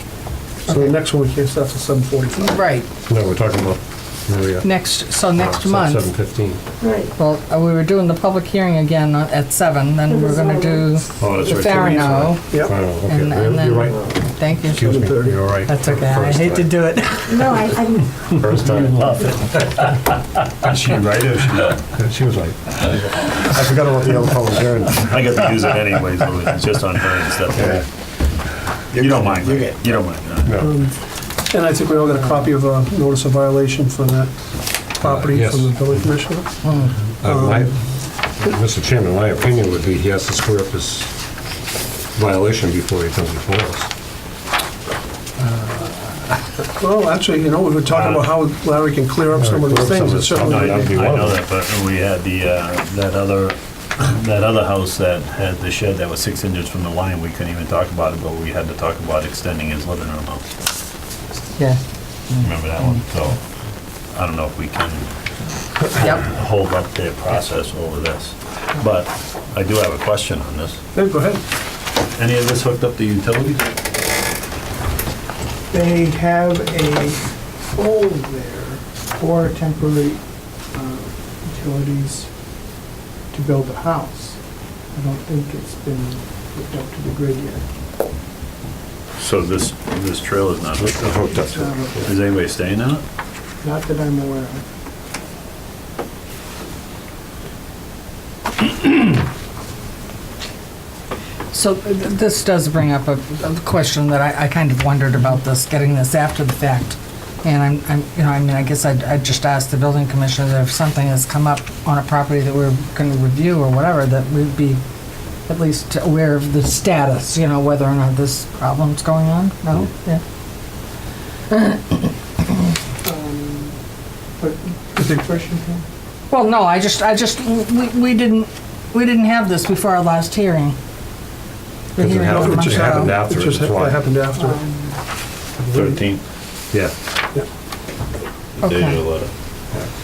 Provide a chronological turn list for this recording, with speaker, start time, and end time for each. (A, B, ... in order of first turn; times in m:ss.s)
0:00.7-0:01.0 A
0:00.7-0:02.6 B
0:02.4-0:02.9 A
0:03.1-0:04.7 C
0:04.6-0:06.1 A
0:05.2-0:06.6 C
0:06.8-0:07.1 D
0:07.2-0:15.0 A
0:10.1-0:11.0 D
0:11.2-0:16.8 C
0:11.4-0:12.7 B
0:14.8-0:15.4 B
0:15.6-0:17.5 A
0:17.3-0:18.4 D
0:18.3-0:19.5 C
0:20.6-0:21.8 E
0:21.9-0:25.1 C
0:25.0-0:27.9 E
0:27.6-0:27.9 C
0:28.9-0:30.7 E
0:30.4-0:30.8 C
0:30.6-0:37.8 B
0:35.0-0:36.2 C
0:36.6-0:37.0 A
0:37.2-0:41.2 C
0:42.2-0:43.9 C
0:45.6-0:45.8 B
0:46.6-0:51.2 B
0:47.9-0:48.3 E
0:49.3-0:51.4 C
0:50.4-1:00.5 E
1:01.6-1:03.0 A
1:02.4-1:03.4 E
1:04.1-1:05.1 E
1:05.7-1:10.8 E
1:06.0-1:06.3 A
1:10.9-1:11.4 B
1:12.2-1:13.7 E
1:15.7-1:17.2 F
1:19.2-1:20.2 F
1:21.4-1:22.2 F
1:23.3-1:24.2 F
1:25.0-1:27.6 F
1:29.2-1:31.2 E
1:30.8-1:32.1 C
1:32.0-1:33.0 E
1:33.6-1:34.5 F
1:41.5-1:54.8 A
1:55.4-2:00.9 A
2:01.5-2:02.5 A
2:03.2-2:03.7 F
2:05.0-2:05.3 B
2:06.3-2:10.8 A
2:12.0-2:13.1 A
2:12.0-2:14.0 C
2:12.2-2:14.6 B
2:14.6-2:14.9 F
2:15.6-2:16.0 B
2:15.7-2:16.2 E
2:18.6-2:19.3 E
2:18.6-2:19.0 A